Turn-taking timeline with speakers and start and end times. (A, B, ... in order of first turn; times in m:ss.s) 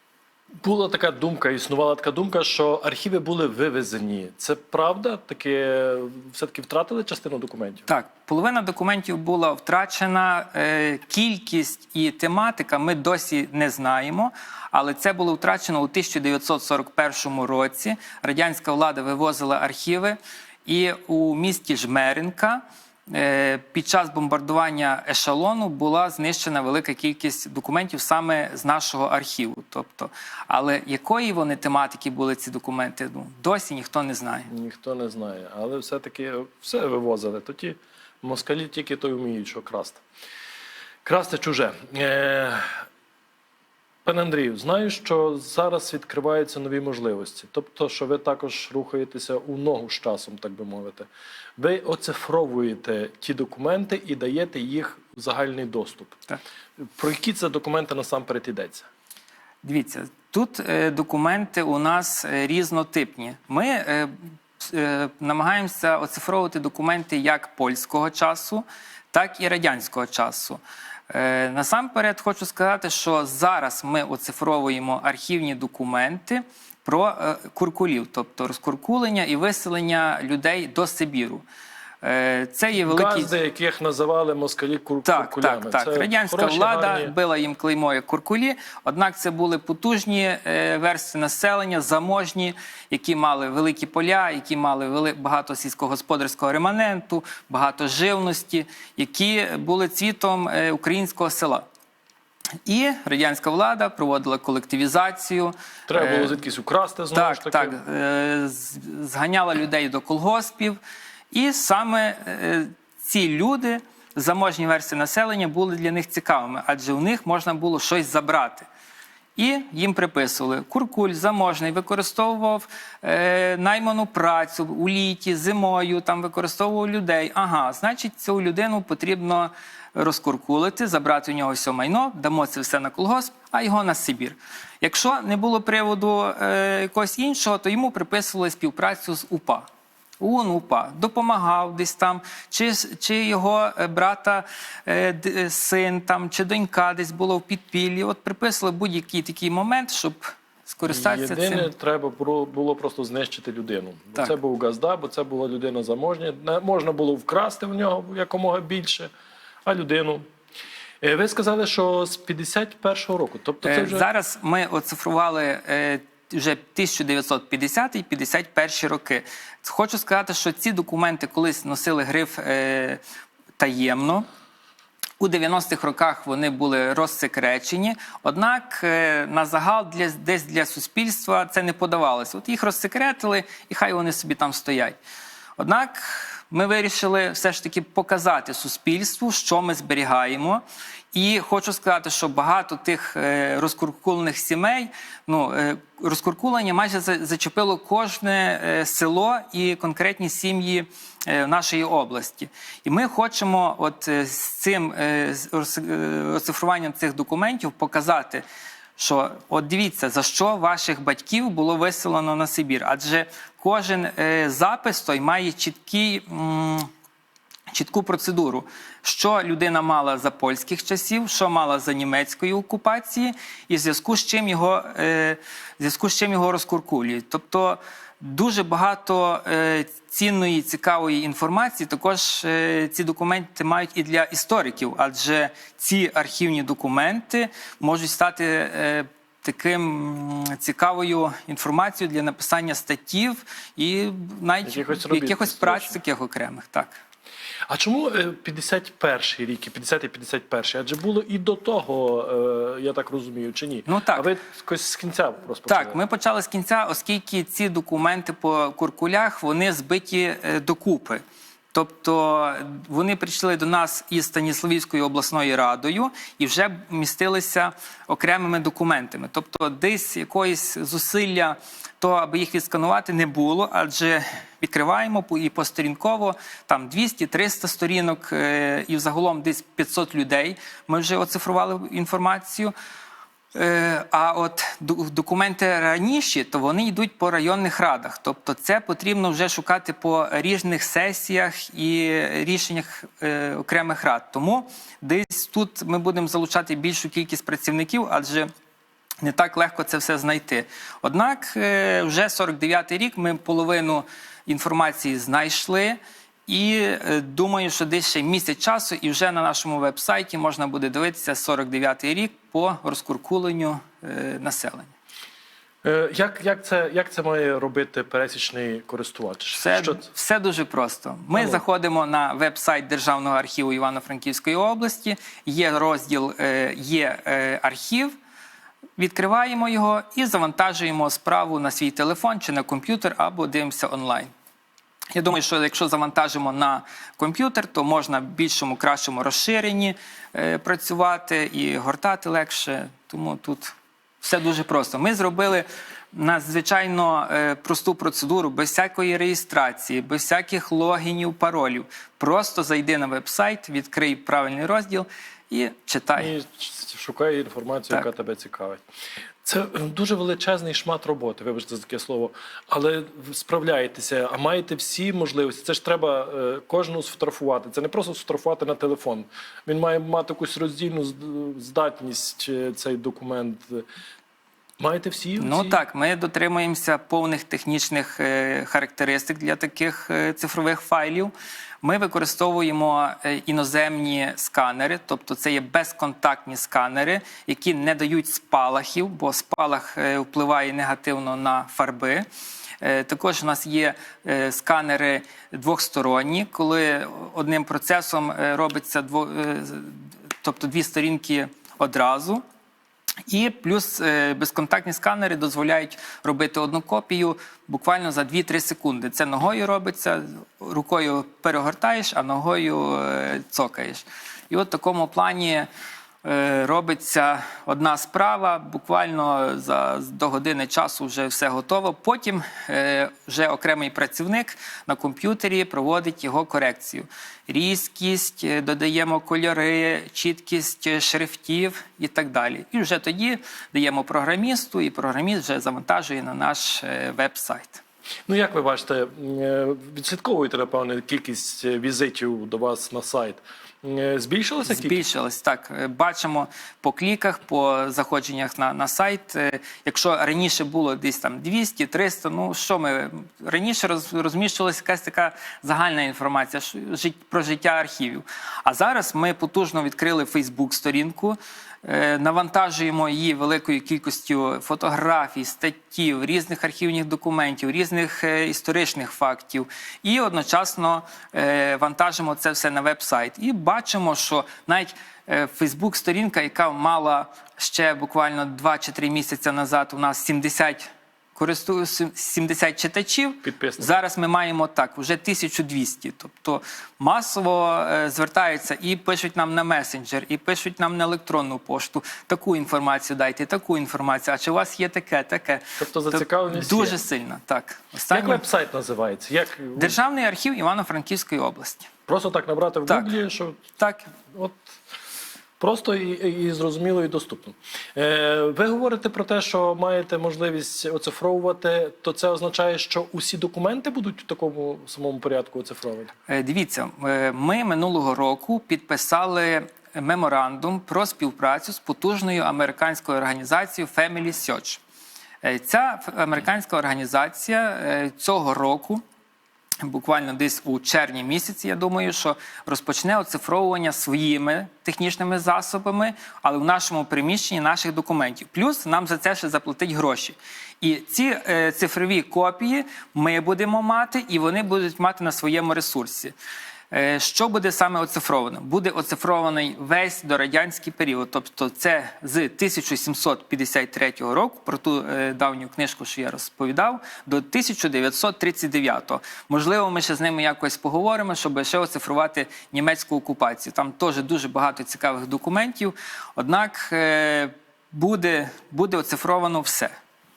0:00.6-0:07.8 A
0:07.9-0:34.5 B
0:34.5-0:40.0 A
0:41.0-0:42.8 A
0:44.0-0:56.2 A
0:56.8-0:58.9 A
0:59.6-1:21.4 B
1:22.0-1:23.3 B
1:22.8-1:27.1 A
1:25.0-1:41.6 B
1:42.6-1:46.4 B
1:45.9-1:47.8 A
1:47.1-1:50.8 B
1:51.3-1:58.7 B
1:59.4-2:19.6 B
2:20.2-2:31.7 B
2:30.9-2:39.1 A
2:39.6-2:40.2 A
2:41.0-2:44.0 A
2:43.6-2:53.0 B
2:53.6-2:54.2 B
2:55.2-3:05.0 B
3:05.6-3:10.6 B
3:11.1-3:28.4 B
3:29.0-3:36.9 B
3:37.7-4:07.0 B
4:04.6-4:06.0 A
4:07.7-4:16.0 A
4:13.8-4:14.3 B
4:15.7-4:21.2 B
4:21.7-4:42.7 B
4:43.5-4:58.5 B
4:59.2-5:14.9 B
5:15.8-5:20.0 A
5:19.6-5:28.1 B
5:21.3-5:21.6 A
5:29.0-5:34.3 B
5:35.1-5:56.3 B
5:56.2-5:58.8 A
5:59.4-6:13.8 A
6:14.8-6:15.8 A
6:15.4-6:21.3 B
6:21.8-6:32.2 B
6:32.8-6:42.4 B
6:43.3-6:55.7 B
6:56.2-7:17.8 B
7:18.3-7:25.0 A
7:24.6-8:18.4 B
8:03.4-8:04.0 A
8:15.8-8:17.0 A
8:18.1-8:20.0 A
8:19.8-8:21.9 B
8:22.1-8:23.6 A
8:22.9-8:23.1 B
8:23.8-8:24.1 B
8:24.3-8:24.7 A
8:25.6-8:36.1 A
8:36.3-8:44.8 B
8:45.4-8:49.0 B
8:49.8-9:06.3 B
9:06.9-9:30.0 B